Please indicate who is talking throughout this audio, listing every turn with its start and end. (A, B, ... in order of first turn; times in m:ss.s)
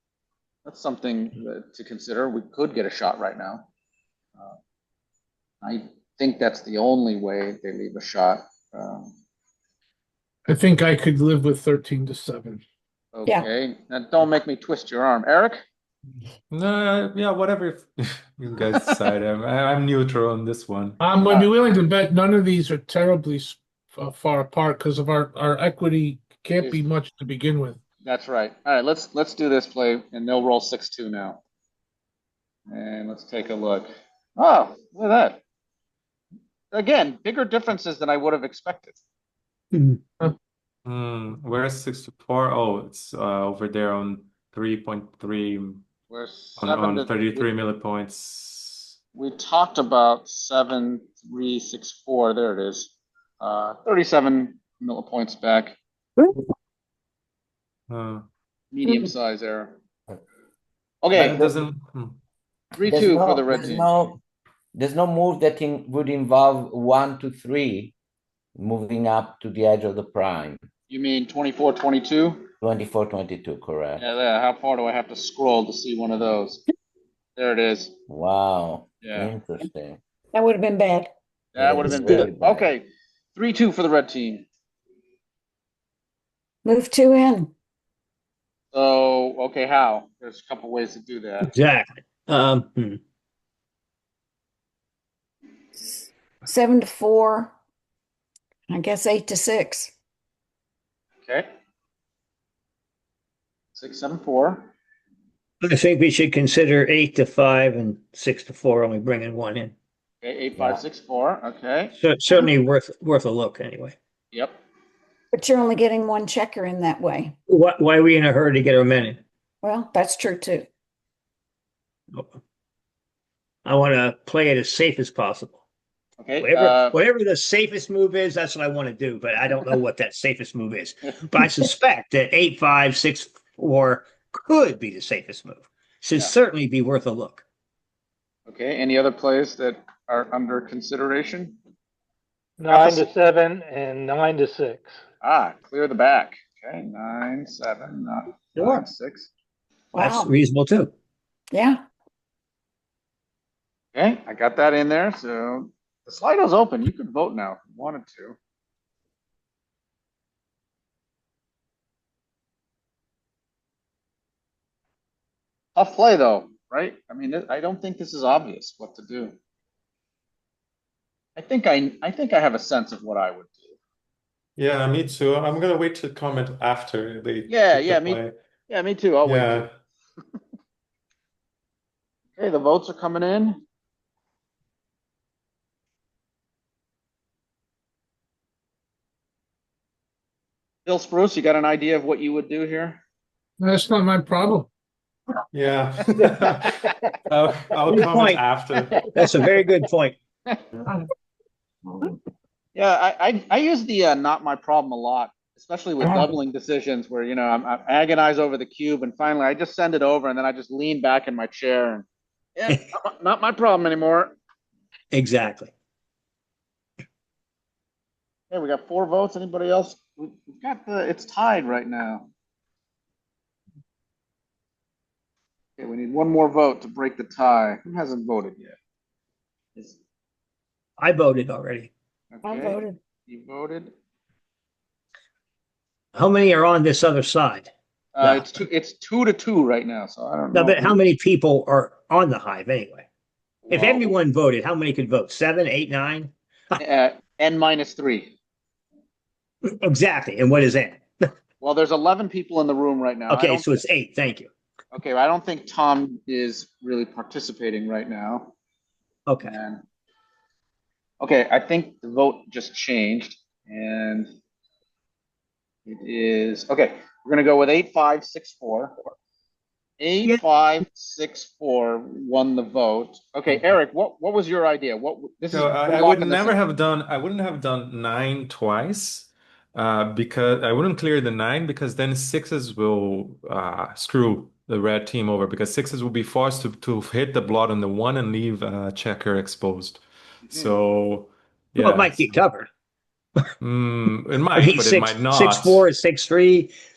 0:00.6-0:03.7 A
0:05.6-0:09.1 A
0:10.5-0:12.6 B
0:13.1-0:15.6 A
0:16.5-0:21.0 C
0:21.0-0:27.8 B
0:21.2-0:21.5 A
0:28.0-0:31.4 A
0:32.7-0:35.4 A
0:36.7-0:39.0 A
0:40.8-0:45.8 C
0:46.1-0:47.5 A
0:46.6-0:49.0 C
0:49.1-0:55.8 A
0:57.9-0:58.2 C
0:58.7-0:59.8 A
1:01.0-1:01.4 A
1:01.1-1:02.2 C
1:01.2-1:01.5 D
1:02.8-1:03.9 A
1:02.8-1:04.2 D
1:04.7-1:07.9 D
1:08.6-1:10.6 D
1:10.9-1:12.4 A
1:12.6-1:14.0 D
1:14.0-1:16.6 A
1:17.4-1:17.9 A
1:18.1-1:20.0 D
1:19.0-1:19.3 A
1:20.3-1:21.1 E
1:21.5-1:24.5 A
1:21.6-1:22.7 D
1:26.6-1:27.5 E
1:28.7-1:31.5 A
1:31.4-1:33.0 F
1:36.4-1:37.5 E
1:38.7-1:39.9 E
1:43.7-1:44.7 A
1:45.6-1:49.7 F
1:50.2-1:52.0 A
1:50.6-1:50.8 D
1:51.9-1:54.0 F
1:54.3-1:54.6 A
1:55.3-1:57.4 E
1:57.5-1:59.2 F
1:59.6-2:00.7 E
2:02.1-2:02.4 F
2:03.6-2:05.6 F
2:06.2-2:07.0 A
2:06.4-2:17.4 F
2:18.5-2:21.6 A
2:22.6-2:25.0 G
2:22.7-2:23.1 A
2:25.2-2:29.3 A
2:28.6-2:28.8 F
2:29.9-2:30.4 E
2:30.0-2:30.9 F
2:31.5-2:31.8 E
2:33.9-2:38.4 A
2:45.7-2:49.4 A
2:51.4-2:53.8 A
2:54.6-2:58.3 C
2:57.5-2:59.7 A
2:59.2-2:59.7 C
3:02.4-3:03.6 A
3:10.8-3:13.0 A
3:13.6-3:14.7 B
3:15.5-3:19.1 C
3:17.9-3:18.4 F
3:19.1-3:20.1 F
3:22.7-3:34.3 A
3:35.1-3:35.7 F
3:38.5-3:42.3 A
3:45.8-3:48.8 A
3:51.0-3:51.9 F
3:52.3-3:53.9 A
3:52.4-3:53.0 E
3:56.1-3:58.6 F
3:58.1-4:01.0 A
4:00.5-4:03.1 F
4:03.6-4:04.2 A
4:03.7-4:06.3 F
4:06.8-4:08.3 A
4:09.6-4:11.0 F
4:11.6-4:13.8 A
4:13.3-4:14.5 F
4:14.9-4:18.5 A
4:19.3-4:19.6 F
4:19.4-4:19.8 A
4:21.2-4:24.3 A
4:25.8-4:29.0 A
4:30.0-4:36.6 A
4:35.5-4:52.2 C
4:50.5-4:50.7 A
4:51.8-4:52.7 F
4:53.6-4:55.8 C
4:54.5-4:56.7 F